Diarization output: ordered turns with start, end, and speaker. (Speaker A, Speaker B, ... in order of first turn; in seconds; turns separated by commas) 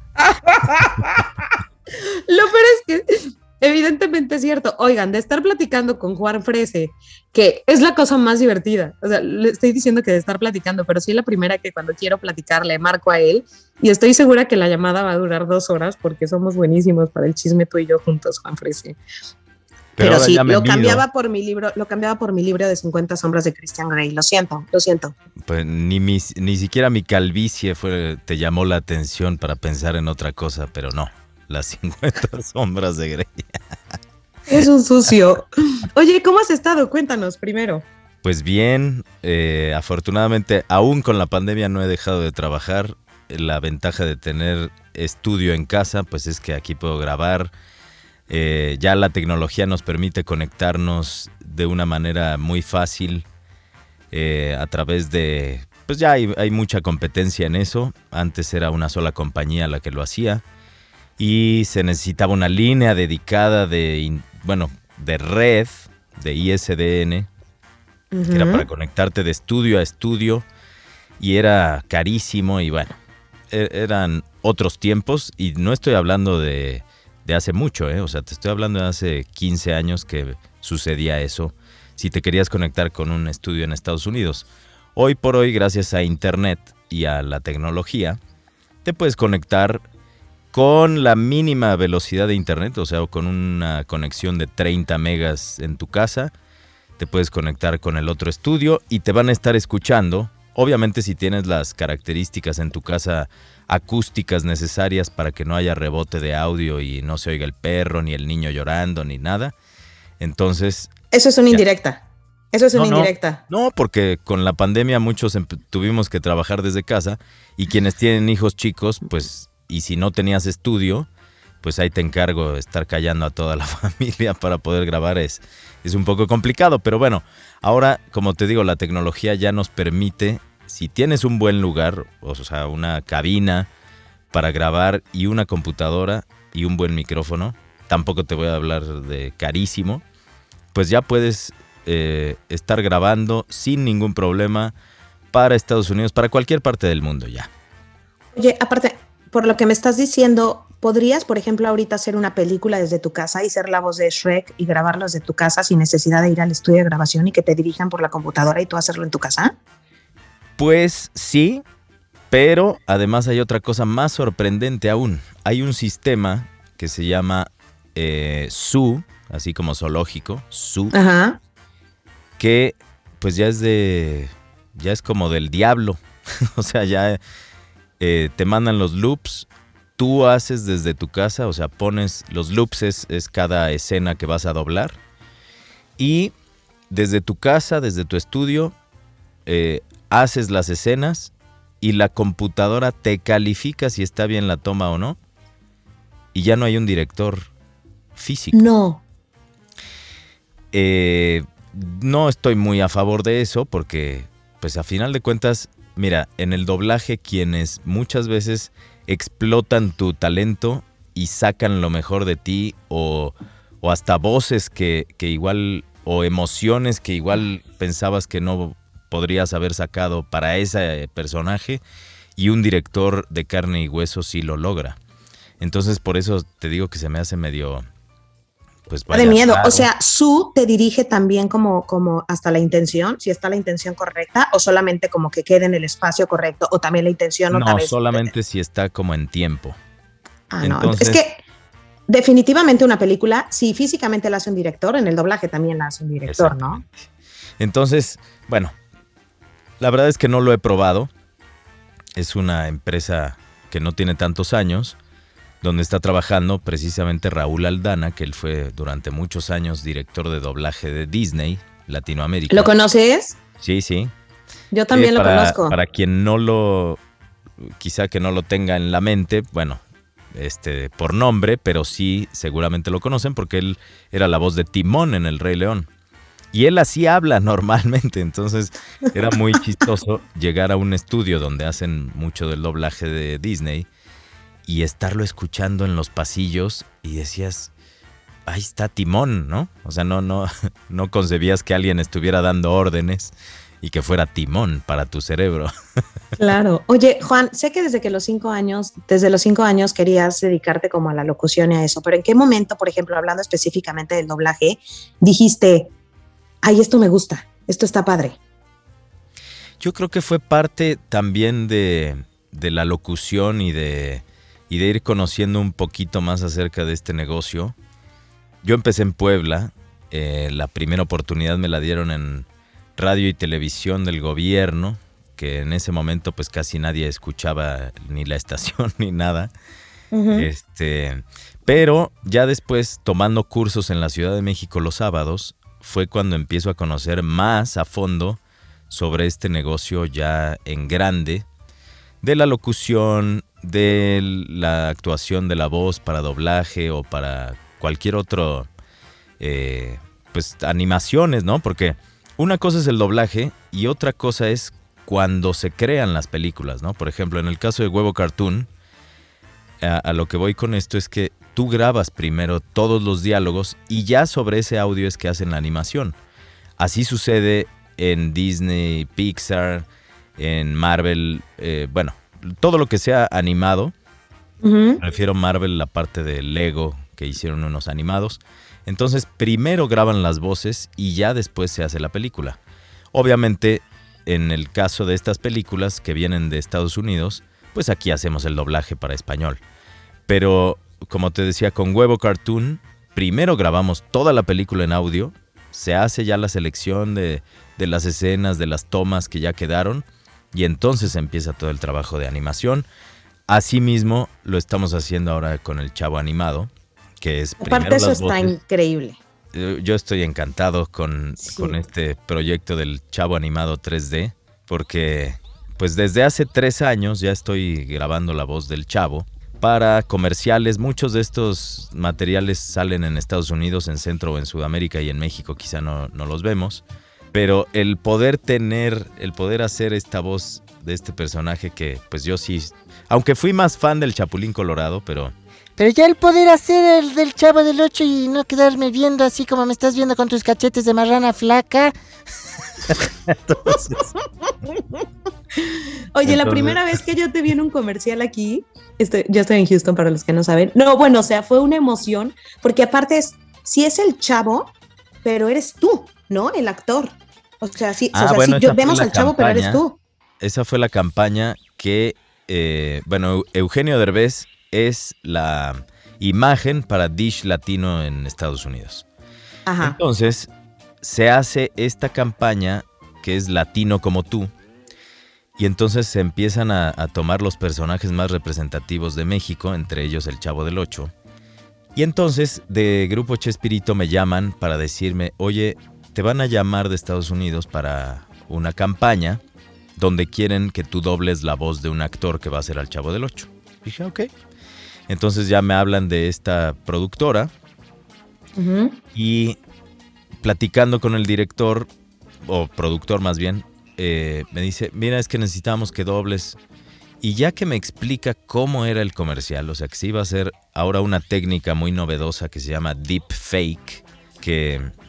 Speaker A: 0.2-19.0, Speaker B: 20.0-21.0, Speaker A: 20.0-25.1, Speaker B: 25.5-33.5, Speaker A: 34.5-37.9, Speaker B: 38.2-47.5, Speaker B: 48.3-53.2, Speaker B: 54.1-60.4, Speaker B: 61.2-67.3, Speaker A: 68.1-68.7, Speaker B: 68.3-70.5, Speaker B: 71.2-73.0, Speaker B: 73.5-88.2, Speaker B: 88.8-89.8, Speaker B: 90.5-96.3, Speaker B: 97.0-109.5, Speaker B: 110.2-110.9, Speaker A: 111.1-112.0, Speaker A: 112.5-113.4, Speaker B: 112.8-121.1, Speaker B: 121.6-133.7, Speaker B: 134.3-140.0, Speaker B: 140.7-144.7, Speaker B: 145.3-147.5, Speaker A: 148.3-159.5, Speaker B: 160.6-161.6, Speaker B: 162.3-170.9, Speaker A: 170.9-171.4, Speaker B: 172.4-177.2, Speaker B: 178.0-179.5, Speaker B: 180.0-185.0, Speaker B: 186.0-186.3, Speaker B: 186.9-188.7, Speaker B: 189.5-195.2, Speaker B: 196.3-197.5, Speaker B: 198.2-198.6, Speaker A: 198.5-199.0, Speaker B: 200.7-221.8, Speaker B: 222.4-225.0, Speaker B: 225.6-227.8, Speaker B: 228.9-229.9, Speaker A: 229.1-238.3, Speaker B: 237.5-239.8, Speaker A: 240.5-241.4, Speaker B: 240.6-241.2, Speaker A: 242.1-246.8, Speaker B: 246.3-247.1, Speaker B: 247.6-248.7, Speaker B: 249.8-251.1, Speaker B: 252.2-255.0, Speaker B: 255.6-262.7, Speaker A: 262.5-263.4, Speaker B: 263.6-264.1, Speaker A: 264.7-265.8, Speaker B: 264.9-267.0, Speaker B: 267.6-269.8, Speaker B: 270.3-275.9, Speaker B: 276.5-283.9, Speaker B: 284.7-287.7, Speaker B: 288.5-295.7, Speaker A: 296.4-305.9, Speaker A: 306.6-308.4, Speaker B: 309.8-317.8, Speaker B: 318.6-322.5, Speaker B: 323.0-329.5, Speaker A: 330.1-330.5, Speaker B: 330.3-338.4, Speaker B: 338.9-341.5, Speaker B: 342.2-348.7, Speaker B: 349.4-358.7, Speaker B: 359.8-366.2, Speaker B: 366.8-369.9, Speaker B: 370.4-373.9, Speaker A: 374.6-375.0, Speaker B: 375.0-382.6, Speaker B: 383.1-389.6, Speaker B: 390.3-402.9, Speaker B: 403.5-406.7, Speaker B: 407.2-408.5, Speaker A: 407.6-409.2, Speaker B: 409.5-435.3, Speaker A: 411.4-411.8, Speaker C: 435.8-441.9, Speaker A: 445.7-454.7, Speaker B: 446.2-446.8, Speaker A: 455.2-460.0, Speaker B: 458.1-459.8, Speaker B: 460.4-469.0, Speaker A: 469.7-470.0, Speaker B: 469.8-470.5, Speaker B: 471.0-474.5, Speaker B: 475.6-481.1, Speaker B: 481.9-489.4, Speaker B: 490.0-494.3, Speaker B: 495.1-497.5, Speaker A: 498.6-499.0, Speaker B: 499.1-499.6, Speaker B: 500.4-501.9, Speaker B: 502.4-506.6, Speaker B: 507.2-514.9